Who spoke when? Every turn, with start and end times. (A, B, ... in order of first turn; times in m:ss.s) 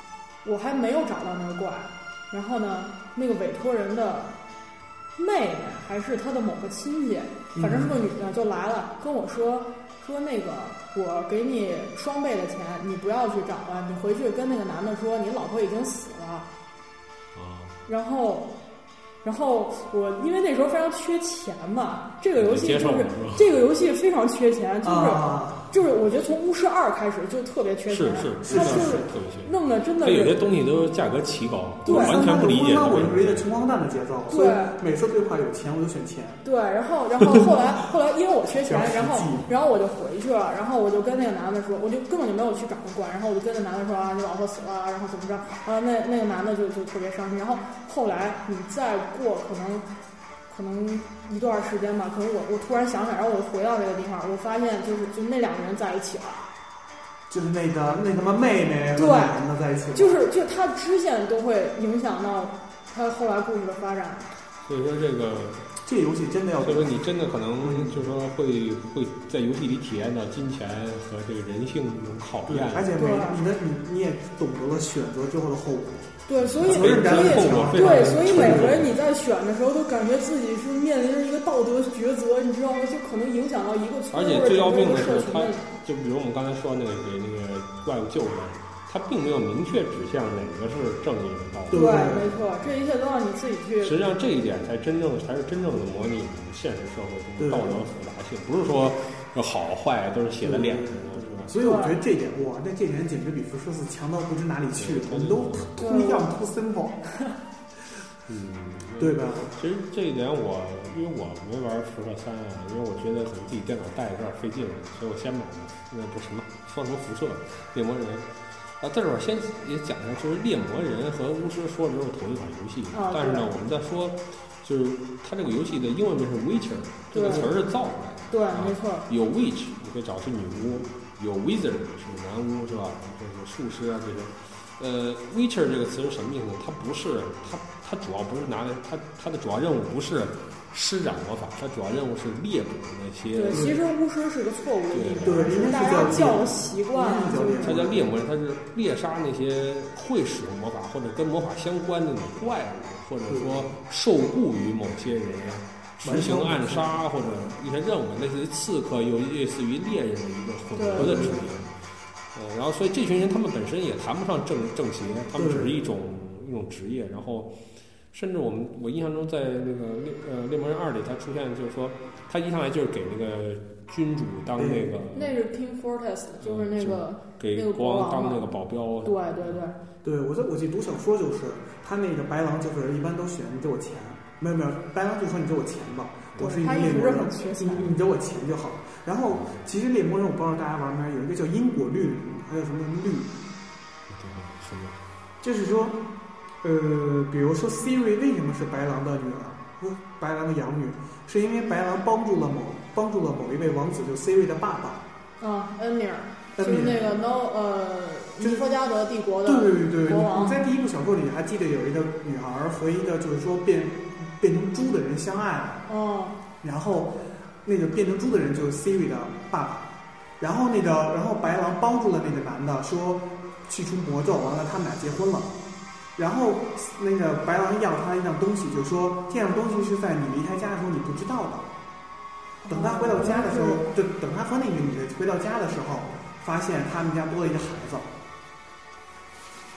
0:00.4-0:04.3 A
0:05.2-0:16.5 A
0:07.5-0:08.0 B
0:17.3-0:17.8 C
0:17.9-0:18.5 A
0:19.2-0:30.4 A
0:22.4-0:23.6 C
0:24.8-0:25.8 B
0:27.9-0:33.5 C
0:28.4-0:29.1 B
0:31.8-0:32.2 A
0:31.8-0:36.4 B
0:34.3-0:34.8 A
0:36.4-0:49.9 A
0:38.6-0:39.5 B
0:50.5-0:56.5 A
0:57.3-1:00.2 B
0:59.0-0:59.4 A
0:59.9-1:04.3 A
1:04.6-1:05.6 C
1:05.8-1:07.0 B
1:06.6-1:12.9 C
1:07.6-1:08.1 B
1:12.5-1:18.8 B
1:13.0-1:13.4 A
1:16.3-1:25.6 A
1:16.4-1:18.9 C
1:24.1-1:32.2 C
1:31.7-1:32.3 B
1:31.7-1:34.0 A
1:33.8-1:41.5 C
1:37.4-1:37.9 B
1:40.4-1:47.1 B
1:41.6-1:42.0 A
1:44.8-1:45.8 C
1:45.8-1:46.3 A
1:48.3-2:23.8 C
1:49.0-1:49.6 B
2:02.9-2:03.5 A
2:07.1-2:07.5 A
2:08.3-2:09.1 A
2:23.3-2:27.9 A
2:23.5-2:23.8 B
2:24.9-2:26.0 C
2:25.2-2:28.0 B
2:27.6-2:41.7 C
2:33.3-2:33.7 B
2:36.0-2:37.1 B
2:40.8-2:41.4 A
2:41.0-2:41.5 B
2:42.3-2:47.6 C
2:45.4-2:45.8 B
2:48.1-2:55.4 C
2:54.6-2:55.0 B
2:55.1-2:58.5 A
2:56.4-2:59.6 C
2:59.0-2:59.8 A
3:00.0-3:13.4 B
3:06.4-3:08.0 A
3:14.1-3:15.0 C
3:15.4-3:16.0 B
3:16.6-3:25.0 B
3:25.4-3:30.6 A
3:26.6-3:27.1 B
3:28.4-3:28.6 B
3:29.4-3:35.9 B
3:35.9-3:36.4 A
3:36.6-3:39.9 B
3:40.4-3:45.5 B
3:46.2-3:51.7 B
3:52.6-3:53.9 A
3:52.7-3:58.1 B